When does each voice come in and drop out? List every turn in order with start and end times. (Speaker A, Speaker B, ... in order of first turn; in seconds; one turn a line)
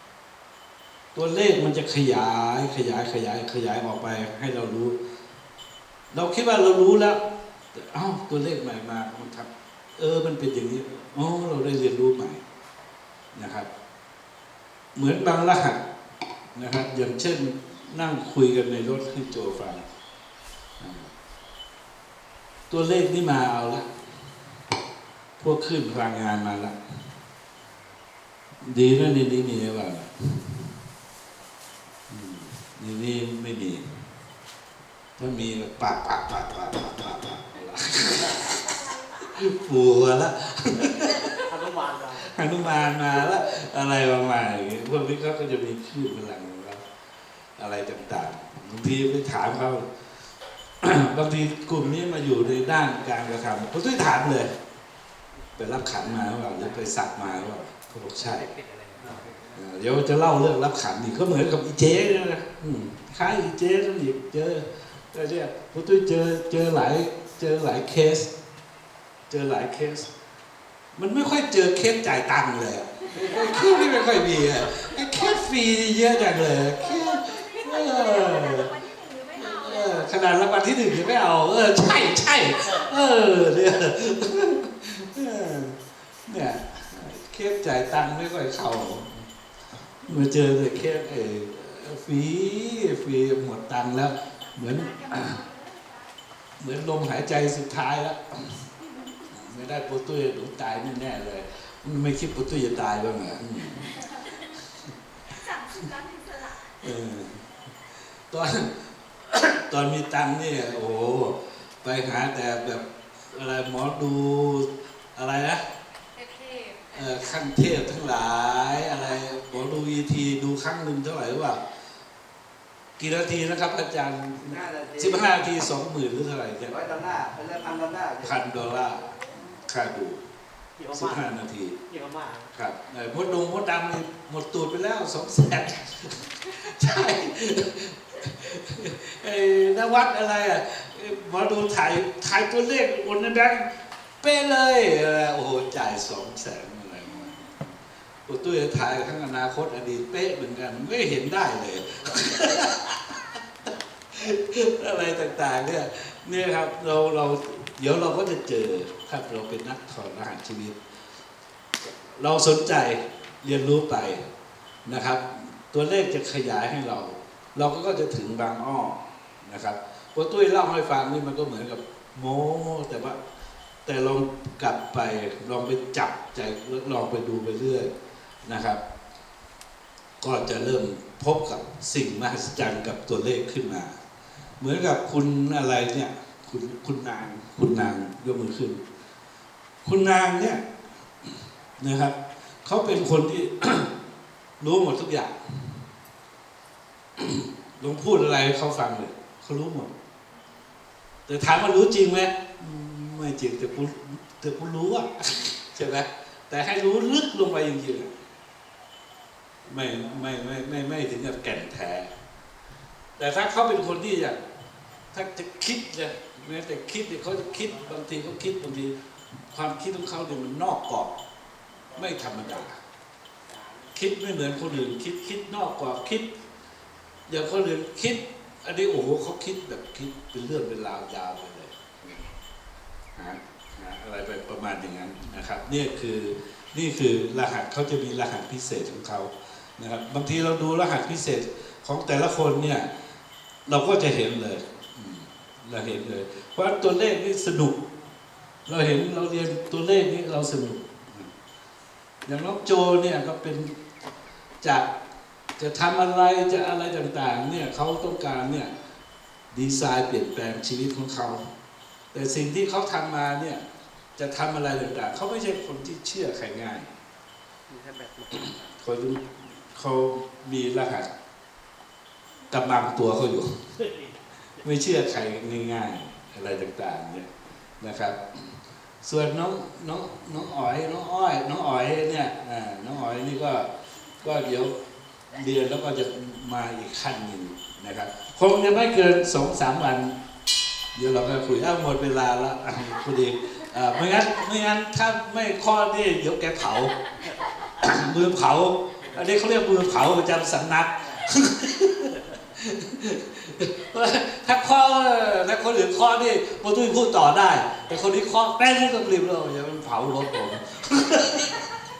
Speaker A: 1.1-5.0
Speaker A: 6.1-7.2
Speaker A: 7.7-12.4
Speaker A: 13.3-13.7
Speaker A: 14.9-15.8
Speaker A: 16.6-19.9
Speaker A: 20.8-21.1
Speaker A: 22.7-23.9
Speaker A: 25.4-26.8
Speaker B: 27.6-27.9
Speaker A: 28.6-30.6
Speaker A: 32.1-33.9
Speaker A: 35.2-41.5
Speaker B: 38.2-38.4
Speaker C: 38.6-39.4
Speaker B: 40.9-42.5
Speaker A: 42.2-46.9
Speaker A: 47.6-49.9
Speaker A: 50.8-54.5
Speaker A: 55.6-58.5
Speaker B: 58.2-59.5
Speaker A: 59.5-68.3
Speaker A: 69.3-70.1
Speaker A: 71.0-78.7
Speaker C: 73.1-74.1
Speaker C: 74.8-75.4
Speaker C: 76.2-80.2
Speaker A: 79.3-89.3
Speaker B: 82.5-83.1
Speaker A: 90.0-95.4
Speaker C: 94.4-96.1
Speaker A: 96.6-98.6
Speaker C: 98.8-99.1
Speaker A: 99.3-104.0
Speaker C: 104.0-104.3
Speaker C: 105.3-106.8
Speaker A: 106.8-107.4
Speaker A: 108.3-115.6
Speaker C: 116.1-117.3
Speaker A: 116.9-121.6
Speaker A: 123.0-126.8
Speaker D: 124.5-125.3
Speaker D: 126.6-128.4
Speaker A: 128.2-130.2
Speaker C: 128.9-129.6
Speaker B: 130.8-131.3
Speaker A: 130.9-131.8
Speaker B: 131.9-132.5
Speaker A: 132.5-143.7
Speaker A: 144.2-147.4
Speaker A: 148.3-153.2
Speaker B: 152.0-152.7
Speaker A: 154.1-160.8
Speaker A: 161.8-164.2
Speaker A: 164.8-173.2
Speaker A: 173.8-177.9
Speaker A: 178.5-178.8
Speaker A: 180.2-184.0
Speaker A: 184.6-188.8
Speaker A: 189.8-190.6
Speaker A: 191.8-193.9
Speaker A: 194.6-195.7
Speaker A: 197.2-199.9
Speaker A: 201.3-208.1
Speaker A: 209.7-212.1
Speaker A: 213.2-214.4
Speaker A: 215.1-218.9
Speaker A: 219.5-221.2
Speaker A: 221.9-222.8
Speaker A: 223.9-226.3
Speaker A: 227.3-232.3
Speaker A: 233.2-242.9
Speaker A: 243.7-247.8
Speaker A: 248.7-251.3
Speaker A: 252.3-253.8
Speaker A: 254.6-254.9
Speaker A: 255.6-258.7
Speaker A: 259.5-261.5
Speaker A: 262.1-263.6
Speaker A: 264.2-266.9
Speaker B: 267.7-268.5
Speaker A: 268.3-271.1
Speaker A: 272.5-273.6
Speaker B: 273.8-274.2
Speaker A: 274.6-277.3
Speaker A: 277.8-283.7
Speaker A: 284.2-284.8
Speaker A: 285.3-290.2
Speaker A: 290.9-297.0
Speaker A: 297.8-311.6
Speaker B: 299.0-299.3
Speaker B: 301.0-301.3